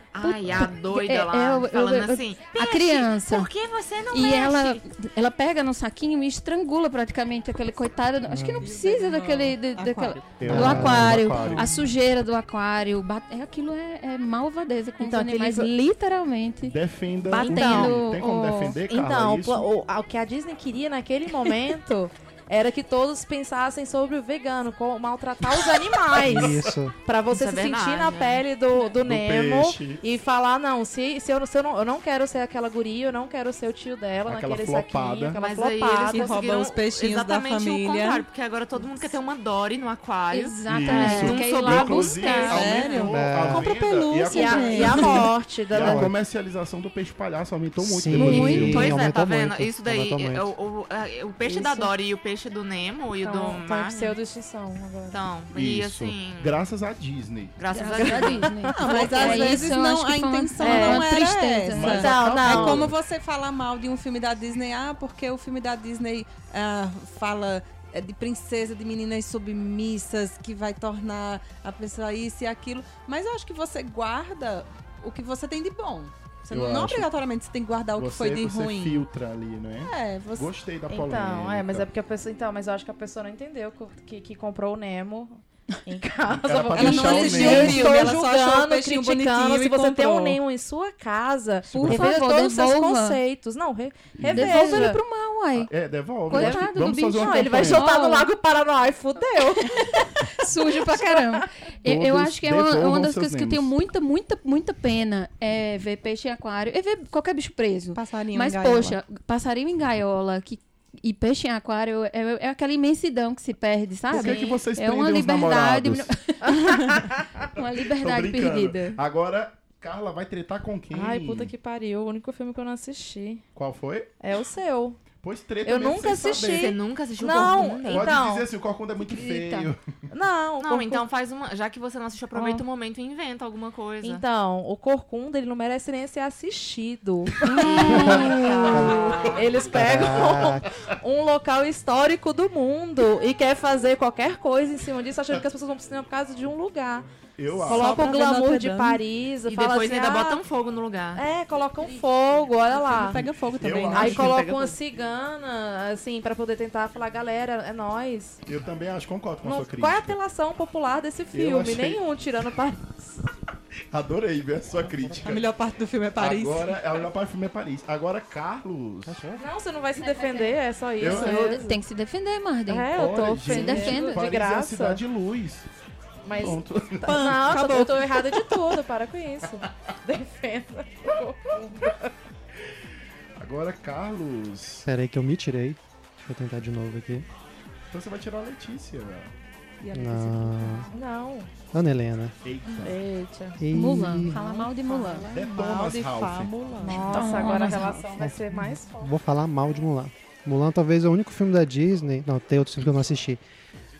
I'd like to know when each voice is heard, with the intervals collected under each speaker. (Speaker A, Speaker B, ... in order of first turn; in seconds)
Speaker A: 0.1-4.8, 27.3-28.4, 35.4-42.7, 48.2-54.2, 55.1-56.6, 57.6-59.1, 126.5-128.2, 130.6-134.2, 149.4-151.2, 153.9-154.8
Speaker B: 0.2-3.5, 4.1-16.8, 17.3-18.8, 40.3-42.7, 48.1-48.7, 57.7-62.1, 91.7-93.2, 94.3-95.7, 96.3-98.3, 100.4-117.0, 117.5-119.0, 129.0-129.7, 169.9-174.2, 193.7-195.3, 197.1-198.1
Speaker C: 8.3-8.7, 10.4-11.4, 26.2-26.9, 43.1-43.7, 45.7-46.1, 47.8-50.5, 137.8-139.0, 139.7-140.6, 169.1-169.3, 184.8-187.2, 189.9-190.9, 191.7-192.3, 193.6-194.4, 198.1-203.4
Speaker D: 8.6-10.8, 36.1-38.2, 42.5-45.3, 58.7-79.1, 79.8-80.5, 86.7-90.4, 107.9-109.0, 147.6-149.0, 152.7-154.3, 165.2-166.8, 173.6-174.1, 177.0-178.5, 189.8-190.9, 194.3-197.7
Speaker E: 10.4-11.7, 16.6-19.7, 26.1-26.7, 29.0-30.0, 34.2-35.4, 40.7-49.0, 55.5-57.6, 61.7-62.9, 76.5-77.1, 78.0-81.9, 86.2-88.1, 91.8-92.0, 94.1-94.9, 95.5-97.9, 101.8-103.7, 114.1-116.1, 117.8-121.5, 123.5-124.1, 125.2-126.7, 127.9-130.0, 137.6-138.2, 147.3-148.1, 153.5-154.3, 158.4-160.2, 161.3-162.0, 163.9-165.5, 166.2-169.3, 171.0-171.6, 172.9-175.7, 176.3-177.6, 183.4-184.9, 187.9-189.3, 192.4-193.0, 195.3-196.5
Speaker F: 15.0-15.7, 17.3-17.9, 18.9-36.4, 40.9-41.5, 42.2-43.1, 44.2-46.1, 51.5-51.8, 53.2-55.2, 57.9-59.6, 60.6-61.1, 61.9-62.8, 80.9-95.0, 96.3-101.5, 114.1-114.6, 116.4-117.2, 120.9-123.4, 124.2-125.0, 125.6-128.5, 130.1-131.0, 132.3-132.6, 134.0-147.1, 147.6-150.4, 151.1-153.2, 153.9-158.4, 159.4-163.2, 169.3-171.8, 172.7-175.0, 176.2-182.1, 190.9-191.5, 192.8-193.6, 196.8-199.1